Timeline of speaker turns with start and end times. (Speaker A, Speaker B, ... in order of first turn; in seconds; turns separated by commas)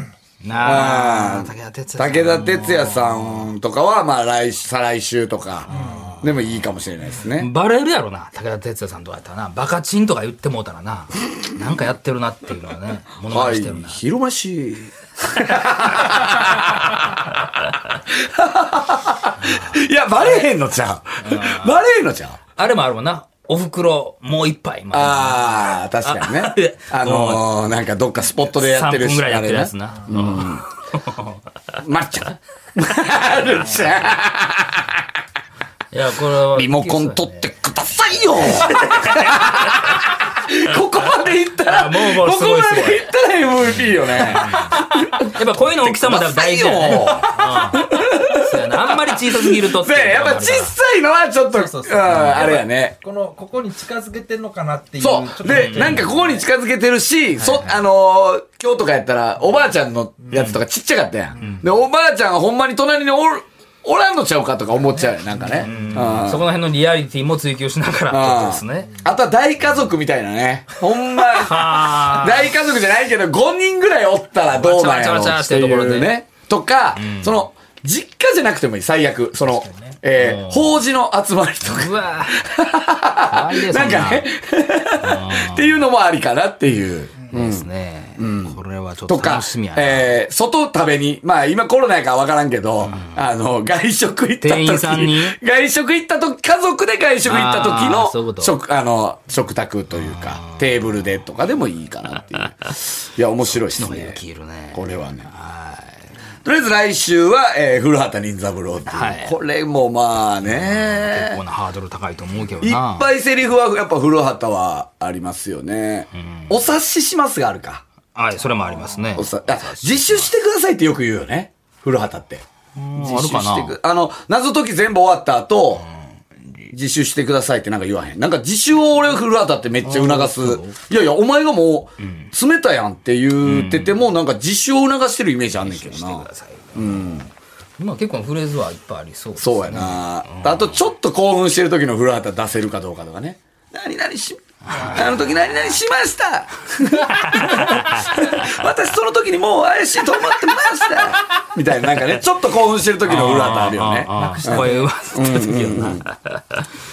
Speaker A: 0.4-3.5, Speaker B: 0.6-7.5, Speaker A: 5.7-6.3, Speaker C: 5.7-6.1, Speaker A: 7.3-14.0, Speaker B: 13.2-22.4, Speaker A: 19.4-19.8, Speaker A: 21.2-21.8, Speaker A: 22.6-27.5, Speaker B: 24.9-30.6, Speaker A: 28.6-31.4, Speaker B: 31.8-35.0, Speaker A: 35.9-37.5, Speaker B: 36.5-53.0, Speaker A: 38.4-40.0, Speaker A: 41.6-43.1, Speaker A: 44.1-50.7, Speaker C: 51.5-56.5, Speaker B: 55.0-66.5, Speaker A: 55.5-56.1, Speaker A: 57.4-57.8, Speaker C: 65.1-66.0, Speaker A: 65.6-68.9, Speaker B: 68.1-87.7, Speaker A: 71.2-72.5, Speaker A: 74.5-76.1, Speaker A: 77.0-77.4, Speaker C: 79.4-80.0, Speaker A: 80.1-80.8, Speaker A: 81.6-82.4, Speaker A: 83.3-84.3, Speaker A: 85.0-85.8, Speaker A: 87.3-90.2, Speaker B: 88.2-88.5, Speaker B: 89.1-104.2, Speaker A: 92.9-93.2, Speaker A: 94.4-95.4, Speaker A: 97.2-98.5, Speaker A: 100.0-100.8, Speaker A: 103.7-106.0, Speaker B: 104.7-105.3, Speaker B: 106.4-111.4, Speaker A: 108.9-109.3, Speaker A: 110.4-113.1, Speaker B: 112.6-117.8, Speaker A: 116.2-116.5, Speaker A: 118.1-120.3, Speaker B: 119.1-122.4, Speaker A: 122.8-123.8, Speaker B: 123.0-125.8, Speaker B: 126.7-137.3, Speaker A: 129.8-130.8, Speaker A: 132.0-132.3, Speaker A: 133.4-134.0, Speaker A: 135.6-140.8, Speaker B: 139.4-156.0, Speaker A: 144.7-145.5, Speaker C: 144.7-145.2, Speaker A: 147.0-148.6, Speaker A: 153.0-156.6, Speaker C: 154.1-154.9